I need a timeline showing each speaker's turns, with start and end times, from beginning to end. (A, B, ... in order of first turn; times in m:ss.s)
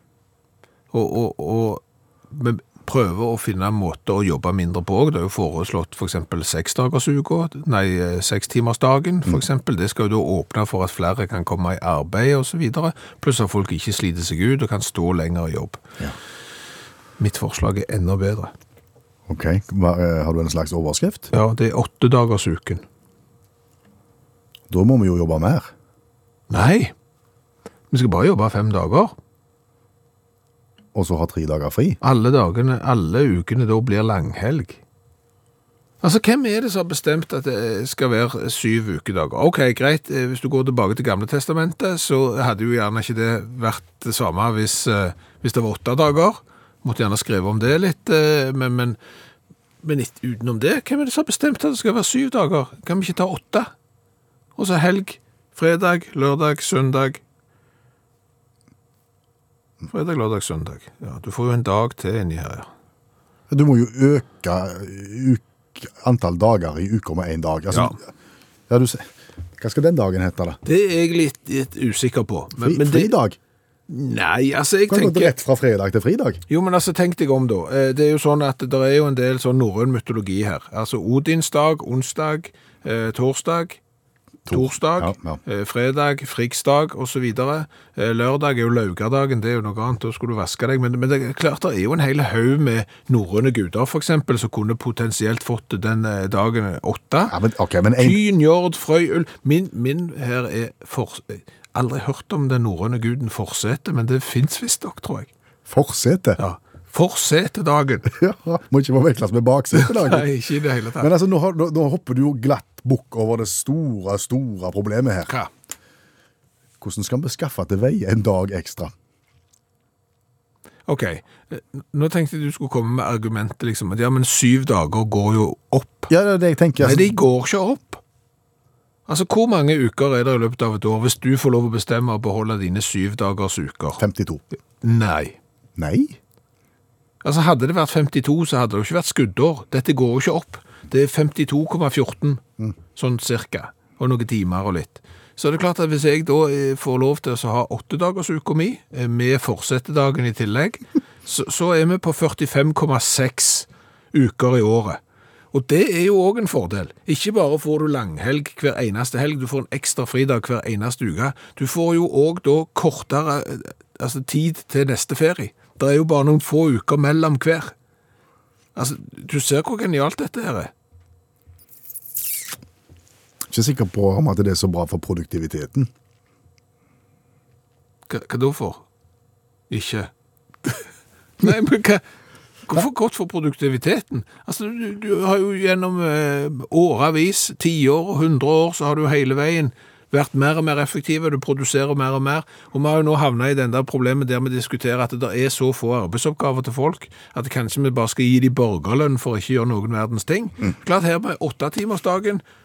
0:00.9-0:15.8 A
0:17.2-0:18.5 A
0:19.3-0:21.3 B
0:21.3-0:22.8 A
0:24.7-0:25.7 B
0:26.5-0:26.9 A
0:27.9-0:29.1 A
0:30.9-0:32.0 B
0:32.0-0:34.8 A
0:36.0-0:49.0 A
0:49.8-0:53.7 A
0:54.6-0:57.2 A
0:59.9-1:02.7 A
1:03.5-1:08.0 B
1:08.7-1:10.6 B
1:10.6-1:13.1 A
1:12.6-1:13.4 B
1:13.9-1:15.3 A
1:14.9-1:16.4 B
1:16.5-1:23.8 A
1:24.5-1:37.4 A
1:24.5-1:25.4 B
1:37.3-1:38.2 B
1:38.0-1:45.3 A
1:45.7-1:46.4 B
1:46.4-1:48.1 A
1:48.2-1:50.3 B
1:49.7-1:51.1 A
1:51.0-1:55.3 B
1:56.8-1:58.9 B
2:00.9-2:06.1 A
2:06.1-2:07.1 B
2:06.8-2:08.0 A
2:09.1-2:14.0 A
2:14.0-2:14.4 B
2:14.8-2:15.4 A
2:15.8-2:16.2 B
2:17.2-2:22.4 A
2:22.9-2:35.0 A
2:35.5-2:47.7 A
2:48.8-2:50.7 A
2:53.5-2:55.9 B
2:58.1-2:58.8 A
2:59.7-3:00.1 A
3:01.4-3:02.0 A
3:02.6-3:22.4 A